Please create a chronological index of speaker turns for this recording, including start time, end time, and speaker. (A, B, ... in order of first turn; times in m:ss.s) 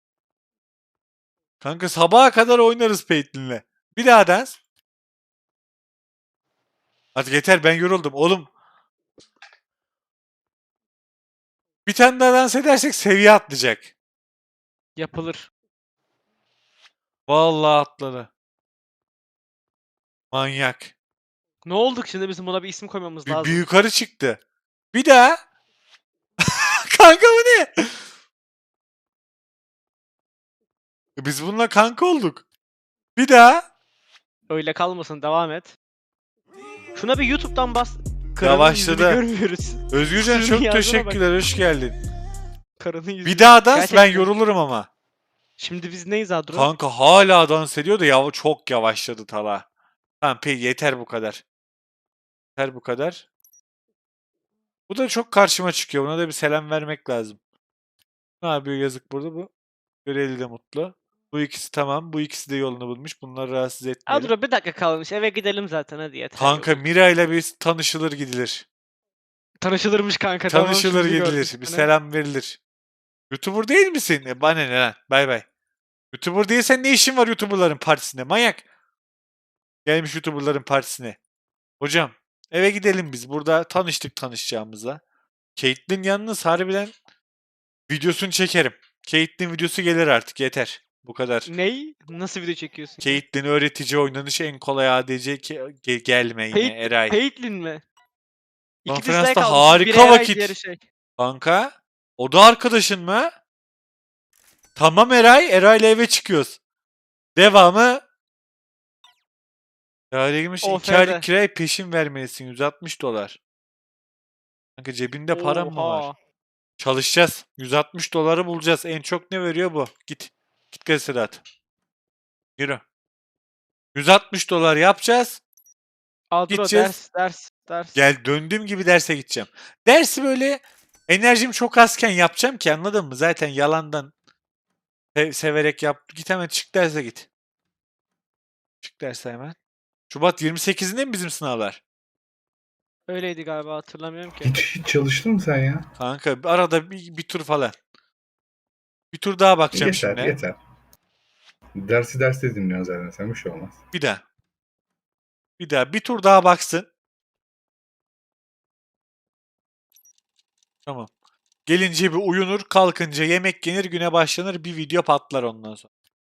0:01.6-0:04.6 A
0:07.2-0:08.5 A
0:11.9-0:13.9 A
0:15.0-0:15.5 B
0:17.3-0:18.3 A
0:20.3-0:20.9 A
0:21.6-0:23.6 B
0:23.3-0:24.4 A
0:24.9-0:25.4 A
0:26.4-0:28.0 A
0:31.2-0:32.5 A
0:33.2-0:33.7 A
0:34.5-0:35.8 B
0:37.0-0:41.2 B
0:38.4-0:39.2 A
0:39.9-0:42.0 A
0:42.8-0:44.3 B
0:43.2-0:44.9 A
0:45.6-0:46.7 B
0:46.5-0:49.7 A
0:50.2-0:51.4 A
0:52.6-0:53.3 A
0:54.9-0:57.4 A
0:58.4-0:59.5 A
1:00.0-1:04.3 A
1:04.1-1:06.8 B
1:06.4-1:08.6 A
1:09.6-1:11.9 B
1:10.5-1:12.6 A
1:13.3-1:15.4 A
1:16.1-1:18.6 A
1:19.8-1:21.2 A
1:21.8-1:25.0 A
1:25.6-1:26.9 A
1:27.9-1:31.5 A
1:31.5-1:33.2 B
1:33.0-1:37.2 A
1:36.5-1:37.8 B
1:38.8-1:40.8 B
1:38.9-1:40.5 A
1:41.2-1:43.3 A
1:44.8-1:46.6 A
1:47.4-1:48.0 A
1:50.1-1:53.4 A
1:50.6-1:51.3 B
1:54.8-1:56.1 A
1:55.3-1:56.1 B
1:56.8-2:01.4 A
2:02.6-2:02.8 A
2:03.9-2:05.4 A
2:06.3-2:08.0 B
2:06.5-2:07.0 A
2:08.0-2:14.1 A
2:15.1-2:17.3 A
2:18.8-2:19.6 A
2:20.1-2:21.8 A
2:23.1-2:24.6 B
2:24.4-2:25.9 C
2:26.0-2:27.8 A
2:29.1-2:30.4 A
2:29.7-2:30.6 C
2:31.8-2:33.8 C
2:33.9-2:34.2 A
2:35.6-2:36.9 A
2:40.9-2:41.1 A
2:41.7-2:45.9 A